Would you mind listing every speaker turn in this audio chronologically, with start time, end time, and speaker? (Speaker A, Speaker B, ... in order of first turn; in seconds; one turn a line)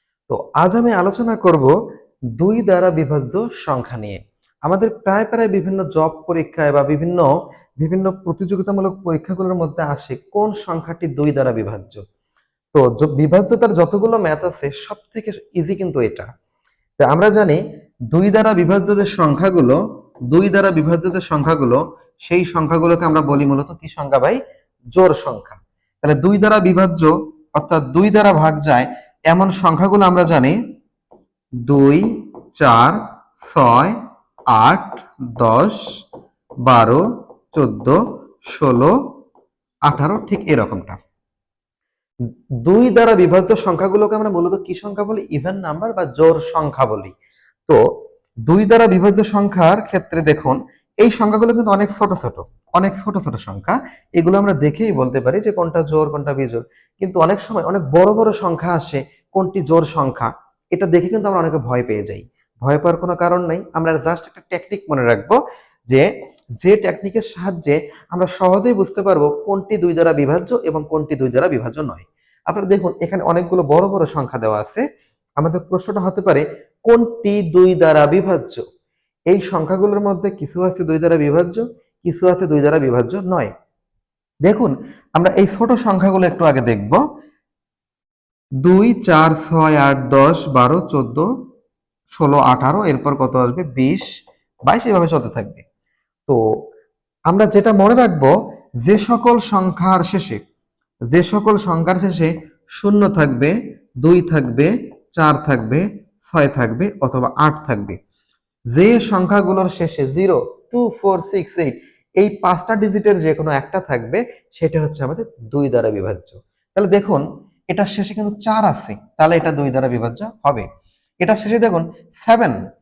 Speaker A: 0.3-1.7
Speaker A: 2.4-7.2
Speaker A: 7.8-12.0
Speaker A: 12.7-16.3
Speaker A: 17.0-17.6
Speaker A: 18.1-19.8
Speaker A: 20.3-24.4
Speaker A: 24.9-30.6
Speaker A: 31.7-32.0
Speaker A: 32.6-34.0
Speaker A: 34.5-35.8
Speaker A: 36.6-37.0
Speaker A: 37.5-38.9
Speaker A: 39.9-41.0
Speaker A: 42.6-47.1
Speaker A: 48.5-66.0
Speaker A: 66.6-74.8
Speaker A: 75.4-78.6
Speaker A: 79.3-83.5
Speaker A: 84.5-87.0
Speaker A: 88.6-91.3
Speaker A: 92.2-94.1
Speaker A: 94.7-95.6
Speaker A: 97.3-98.3
Speaker A: 98.8-100.4
Speaker A: 101.1-108.0
Speaker A: 108.7-120.7
Speaker A: 121.2-122.6